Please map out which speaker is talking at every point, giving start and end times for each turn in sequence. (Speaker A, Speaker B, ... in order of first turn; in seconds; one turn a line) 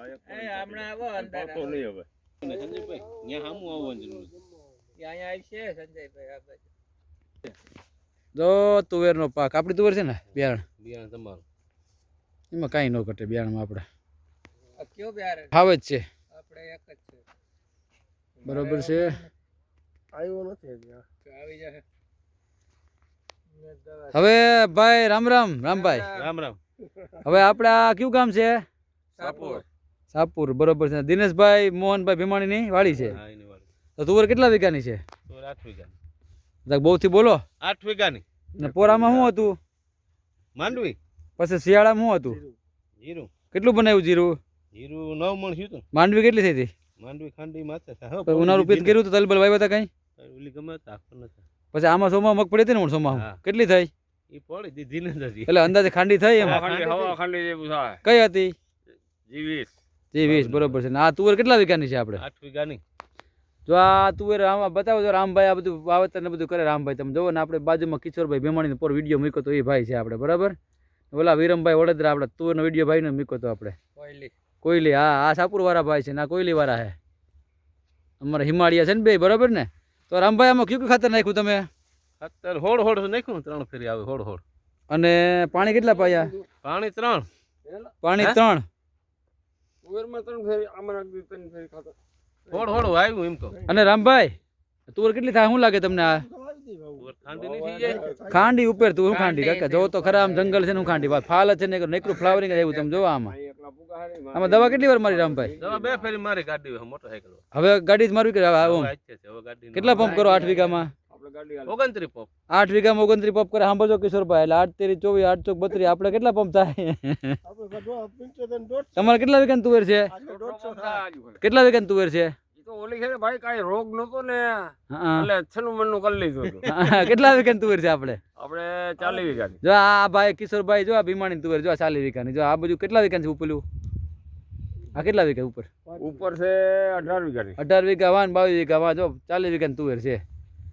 Speaker A: 0.2-1.8
Speaker B: 0.3-1.7
Speaker C: 1.2-1.8
Speaker C: 2.4-4.3
Speaker A: 5.0-6.7
Speaker D: 8.3-10.6
Speaker C: 10.3-11.4
Speaker D: 12.5-13.8
Speaker A: 14.8-15.5
Speaker D: 15.5-16.0
Speaker A: 16.3-17.2
Speaker D: 18.4-19.2
Speaker E: 20.1-21.0
Speaker A: 21.3-21.8
Speaker A: 23.7-24.1
Speaker D: 24.1-26.1
Speaker C: 26.1-26.6
Speaker D: 27.2-28.6
Speaker A: 29.2-29.6
Speaker C: 29.2-29.6
Speaker B: 29.2-29.6
Speaker D: 30.1-33.2
Speaker C: 32.9-33.7
Speaker D: 34.0-35.0
Speaker C: 35.3-35.9
Speaker D: 36.6-37.4
Speaker C: 37.6-38.2
Speaker D: 38.5-39.6
Speaker C: 38.9-39.3
Speaker C: 40.5-41.0
Speaker D: 41.4-42.4
Speaker C: 43.0-43.3
Speaker D: 43.5-44.4
Speaker C: 44.7-45.8
Speaker D: 45.9-46.7
Speaker C: 47.0-49.0
Speaker D: 48.3-49.9
Speaker C: 50.2-51.4
Speaker D: 51.7-53.9
Speaker C: 53.1-53.4
Speaker C: 54.3-55.7
Speaker D: 55.5-56.6
Speaker C: 56.4-57.2
Speaker B: 56.4-58.0
Speaker D: 58.0-58.5
Speaker B: 59.3-59.7
Speaker D: 60.1-62.2
Speaker C: 60.2-60.8
Speaker C: 62.2-62.8
Speaker D: 63.7-70.5
Speaker D: 71.1-73.8
Speaker B: 74.0-74.3
Speaker D: 74.6-77.0
Speaker D: 78.2-81.7
Speaker C: 82.2-84.4
Speaker D: 84.9-86.3
Speaker B: 85.6-86.4
Speaker C: 86.6-87.3
Speaker B: 87.6-87.9
Speaker D: 88.0-88.7
Speaker B: 89.8-92.0
Speaker C: 92.5-93.6
Speaker D: 93.7-94.3
Speaker D: 94.9-96.3
Speaker E: 96.2-97.0
Speaker C: 97.0-98.2
Speaker B: 97.3-98.4
Speaker E: 97.8-98.4
Speaker D: 98.2-103.3
Speaker A: 99.1-100.5
Speaker B: 102.0-106.2
Speaker D: 104.3-105.5
Speaker C: 105.6-107.4
Speaker D: 107.5-108.9
Speaker C: 108.6-110.7
Speaker D: 109.7-110.9
Speaker B: 109.9-111.8
Speaker C: 111.7-112.3
Speaker D: 112.5-117.4
Speaker E: 117.4-119.0
Speaker D: 118.9-120.1
Speaker E: 120.1-121.0
Speaker B: 120.2-121.4
Speaker D: 121.4-122.3
Speaker B: 122.5-126.8
Speaker D: 124.9-125.3
Speaker D: 126.6-128.2
Speaker B: 128.3-129.6
Speaker D: 129.6-133.6
Speaker D: 134.9-135.7
Speaker B: 136.0-137.6
Speaker D: 137.6-140.2